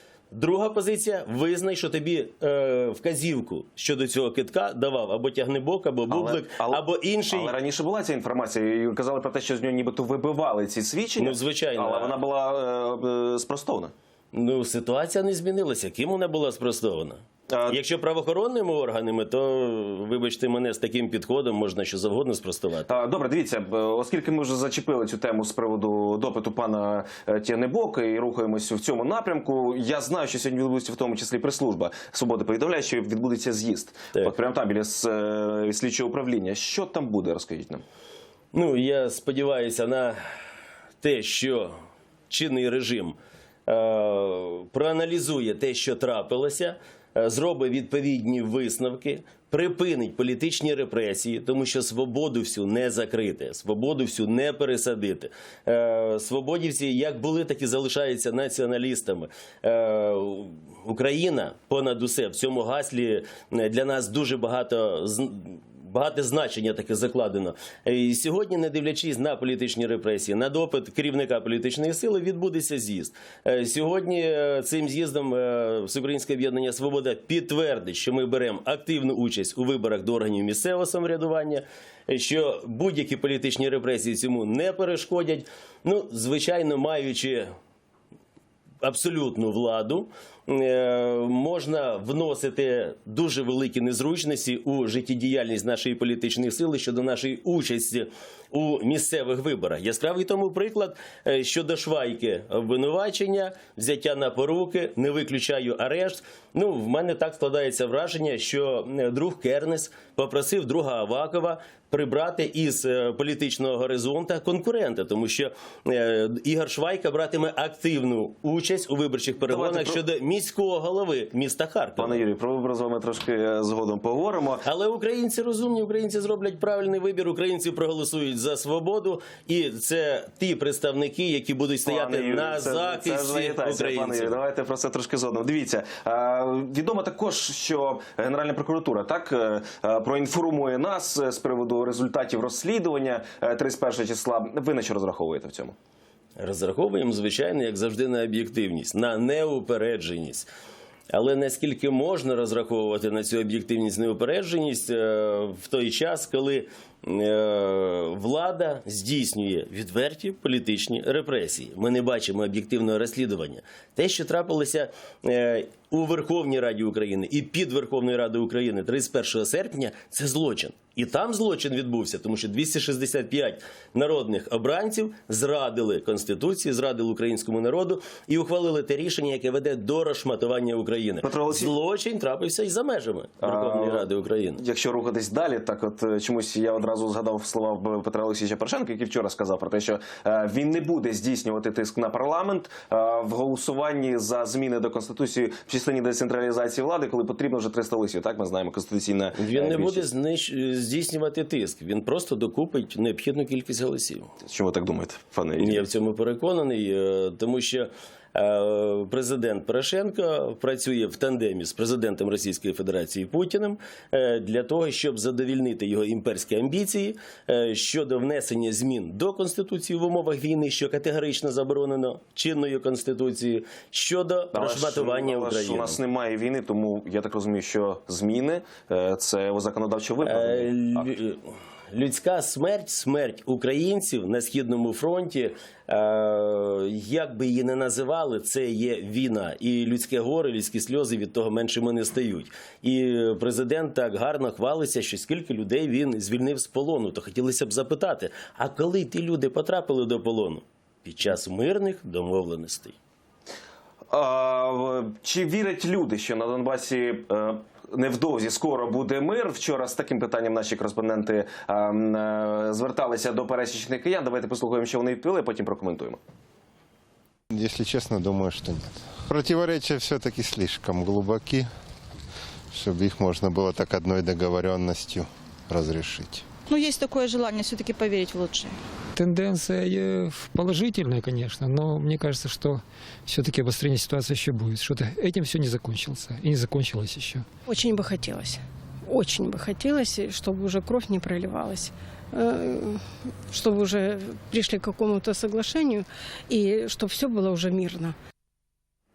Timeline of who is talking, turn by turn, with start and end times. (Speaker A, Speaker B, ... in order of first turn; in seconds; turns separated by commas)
Speaker A: 0.3-7.5, Speaker B: 6.1-13.9, Speaker A: 11.2-12.2, Speaker A: 14.3-22.9, Speaker B: 17.5-17.8, Speaker B: 22.9-37.8, Speaker A: 38.5-40.2, Speaker A: 41.0-41.7, Speaker A: 42.3-43.1, Speaker A: 43.7-87.5, Speaker A: 88.8-122.2, Speaker B: 119.5-120.0, Speaker B: 122.0-124.6, Speaker A: 124.6-134.4, Speaker B: 131.8-145.7, Speaker A: 146.4-150.5, Speaker A: 151.1-184.6, Speaker B: 181.2-181.7, Speaker B: 183.4-200.1, Speaker A: 199.3-204.3, Speaker B: 204.4-205.8, Speaker A: 205.6-226.0, Speaker B: 224.5-231.1, Speaker A: 230.2-231.4, Speaker A: 231.9-252.9, Speaker B: 254.1-266.2, Speaker C: 267.5-271.7, Speaker C: 272.7-276.4, Speaker D: 276.7-278.8, Speaker E: 279.1-287.4, Speaker F: 287.7-298.1